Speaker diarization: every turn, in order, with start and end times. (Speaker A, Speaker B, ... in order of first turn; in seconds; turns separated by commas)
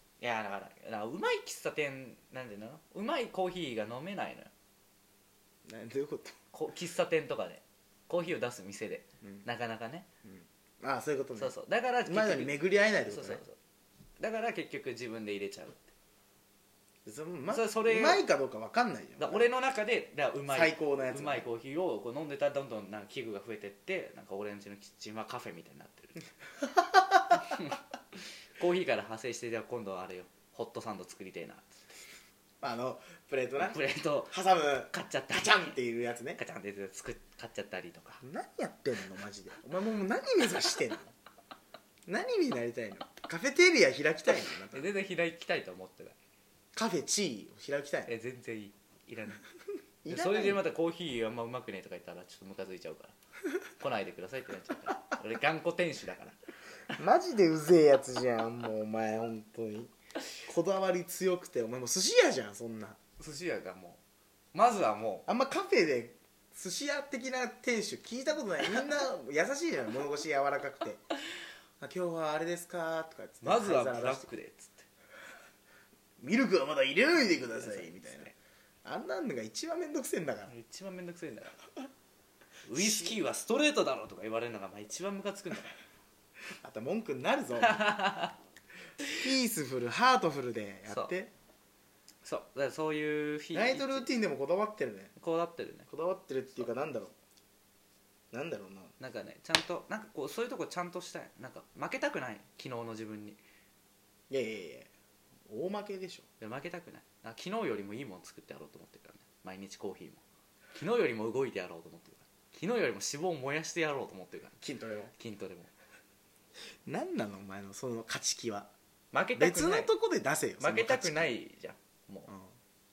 Speaker A: 0.2-4.5, Speaker B: 5.7-6.3, Speaker A: 6.5-10.1, Speaker B: 10.2-13.4, Speaker A: 11.3-13.6, Speaker A: 14.2-15.9, Speaker B: 17.0-19.5, Speaker A: 17.5-18.2, Speaker A: 19.2-26.2, Speaker B: 20.5-21.5, Speaker B: 26.7-27.4, Speaker A: 27.3-31.8, Speaker B: 32.6-36.4, Speaker A: 33.6-34.4, Speaker A: 34.9-35.8, Speaker A: 36.4-38.2, Speaker B: 38.2-41.1, Speaker B: 42.0-44.9, Speaker A: 44.7-46.1, Speaker B: 46.7-48.1, Speaker A: 48.0-49.4, Speaker B: 50.0-50.6, Speaker A: 50.1-53.1, Speaker A: 53.8-56.4, Speaker B: 57.0-63.0, Speaker A: 63.2-64.0, Speaker A: 64.5-65.2, Speaker B: 65.3-71.0, Speaker B: 71.8-74.3, Speaker A: 73.4-74.9, Speaker B: 76.2-78.3, Speaker A: 77.2-78.3, Speaker B: 78.8-80.5, Speaker A: 80.5-81.6, Speaker A: 82.7-85.7, Speaker B: 82.7-83.2, Speaker B: 86.6-88.0, Speaker A: 87.6-88.3, Speaker B: 89.1-91.3, Speaker A: 90.9-91.1, Speaker A: 92.2-94.1, Speaker B: 93.5-95.1, Speaker A: 95.2-95.9, Speaker B: 95.9-97.1, Speaker B: 98.3-98.9, Speaker A: 99.0-103.4, Speaker B: 104.3-104.9, Speaker B: 105.5-106.2, Speaker A: 106.4-110.2, Speaker A: 110.7-114.6, Speaker B: 114.6-115.1, Speaker A: 115.1-115.7, Speaker B: 116.8-118.7, Speaker A: 119.1-119.9, Speaker B: 119.3-121.3, Speaker A: 120.6-122.3